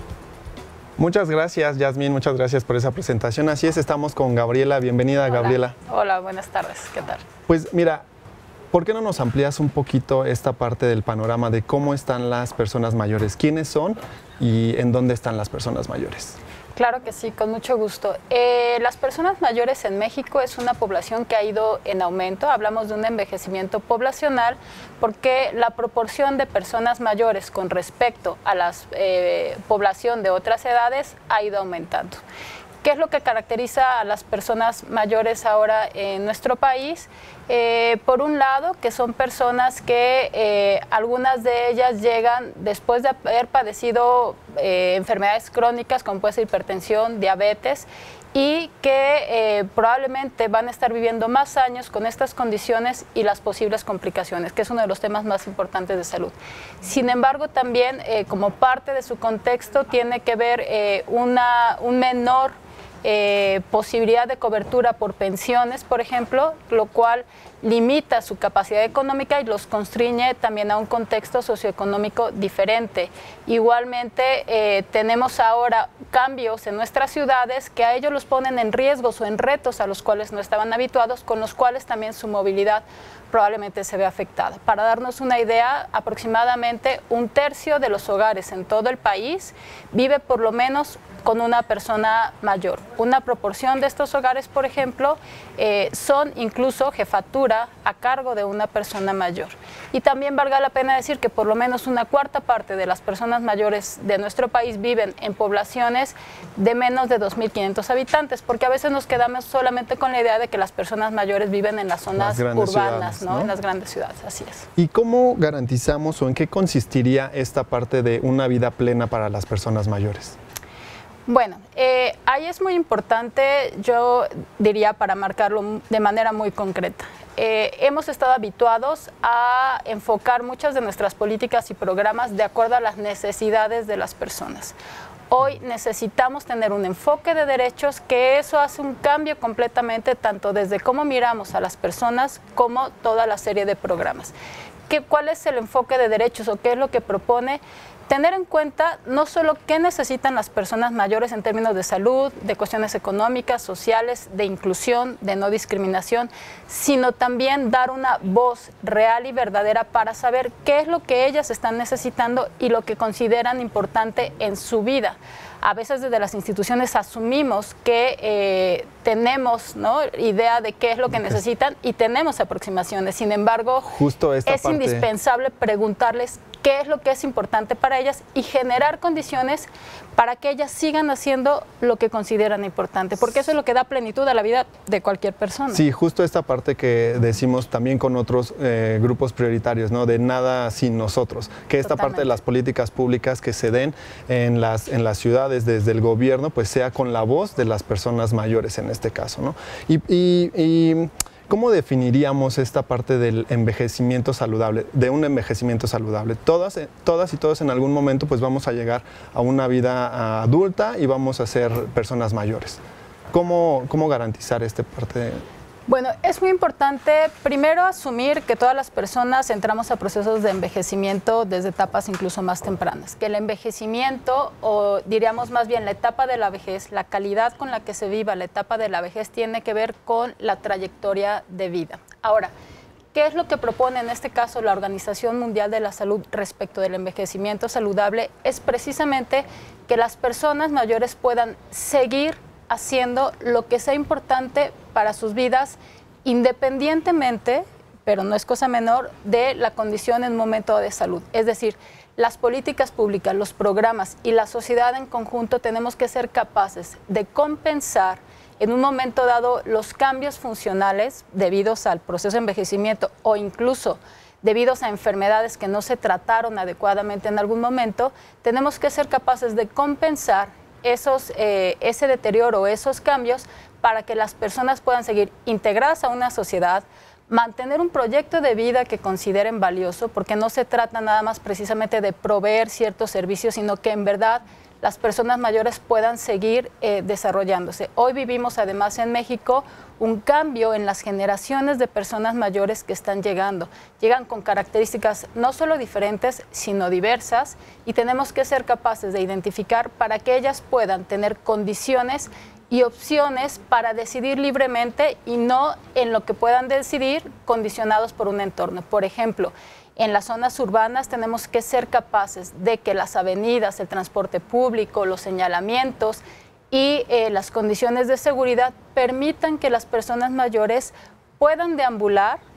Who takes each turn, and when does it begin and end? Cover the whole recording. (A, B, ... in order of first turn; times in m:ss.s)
0:01.0-0:05.7 A
0:05.3-0:07.2 B
0:07.5-0:08.0 A
0:08.7-0:16.4 A
0:16.7-0:32.2 B
0:32.8-1:54.7 B
1:52.1-1:53.5 A
1:54.8-2:00.4 A
2:01.3-2:14.7 B
2:15.3-2:24.3 B
2:24.9-2:53.9 B
2:53.8-2:55.1 A
2:54.4-3:05.8 B
3:05.7-3:32.8 A
3:11.8-3:12.4 B
3:33.3-3:35.4 A
3:35.9-3:52.5 B
3:53.1-5:22.4 B